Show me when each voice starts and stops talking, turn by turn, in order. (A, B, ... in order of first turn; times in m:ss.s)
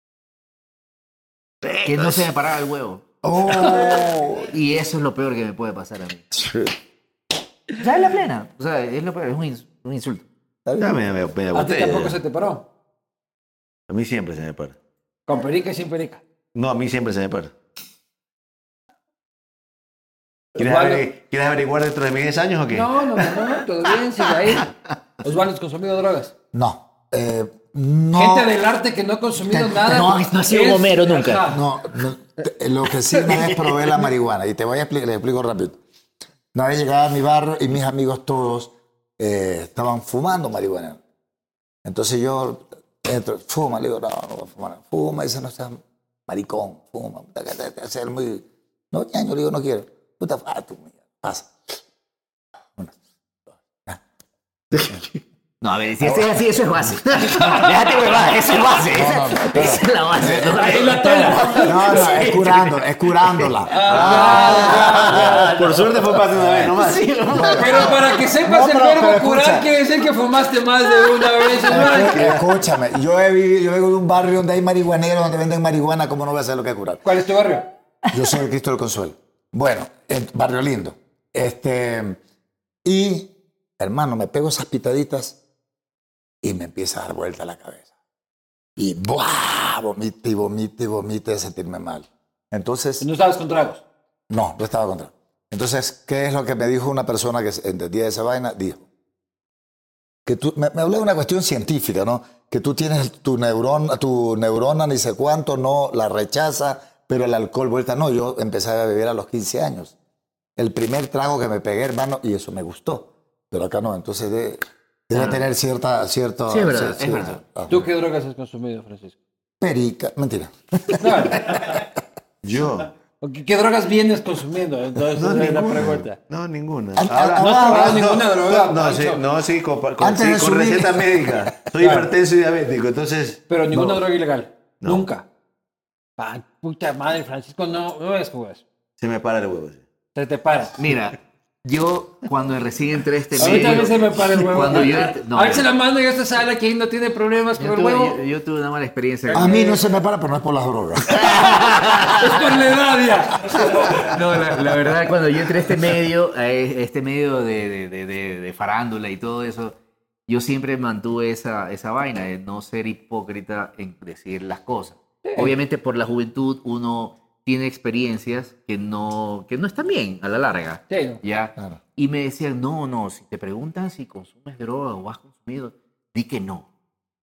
0:01.6-0:02.3 A
0:01.8-0:03.0 B
0:03.2-0:04.5 C
0:03.6-0:06.3 B
0:06.4-0:06.7 C
0:07.8-0:10.3 B
0:10.6-0:11.0 C
0:10.8-0:12.2 A
0:11.5-0:12.6 D
0:13.9-0:14.7 A
0:15.3-0:16.2 D
0:16.5-0:17.5 A
0:20.6-0:23.4 A
0:20.6-0:21.0 D
0:22.7-0:24.7 D
0:25.2-0:26.3 D
0:26.5-0:28.5 C
0:28.1-0:31.6 D
0:29.8-0:31.5 B
0:31.5-0:35.8 C
0:36.5-0:41.0 C
0:41.8-0:51.5 C
0:52.8-0:54.0 C
0:54.7-0:55.1 A
0:55.6-1:02.4 B
0:56.0-0:57.0 C
0:57.4-0:57.6 D
0:58.9-1:05.5 C
1:00.5-1:02.7 D
1:03.4-1:08.1 B
1:03.6-1:05.4 D
1:03.8-1:07.0 A
1:06.4-1:06.7 C
1:07.3-1:09.6 C
1:07.6-1:12.3 D
1:11.7-1:17.0 C
1:12.1-1:12.5 A
1:17.0-1:17.7 D
1:18.1-1:22.2 C
1:22.8-1:25.4 C
1:26.4-1:27.9 C
1:28.8-1:33.0 C
1:33.0-1:33.8 D
1:34.3-1:38.8 C
1:40.2-1:49.9 C
1:50.6-1:57.9 C
1:55.1-1:55.4 B
1:56.5-1:57.4 B
1:57.7-1:59.2 D
1:59.6-2:01.9 C
2:01.0-2:01.7 D
2:02.4-2:02.9 A
2:03.2-2:06.2 D
2:05.1-2:14.0 A
2:07.0-2:08.0 C
2:07.4-2:09.2 D
2:10.0-2:11.5 C
2:11.8-2:12.1 D
2:13.5-2:15.2 D
2:16.2-2:18.6 D
2:19.0-2:19.8 A
2:20.1-2:20.8 D
2:20.8-2:25.7 B
2:23.4-2:23.7 A
2:23.4-2:28.2 D
2:27.6-2:29.6 B
2:29.3-2:29.8 D
2:29.3-2:31.8 C
2:31.1-2:32.4 B
2:32.2-2:34.1 D
2:34.0-2:39.8 B
2:40.3-2:56.7 B
2:45.2-2:45.5 D
2:50.9-2:51.2 D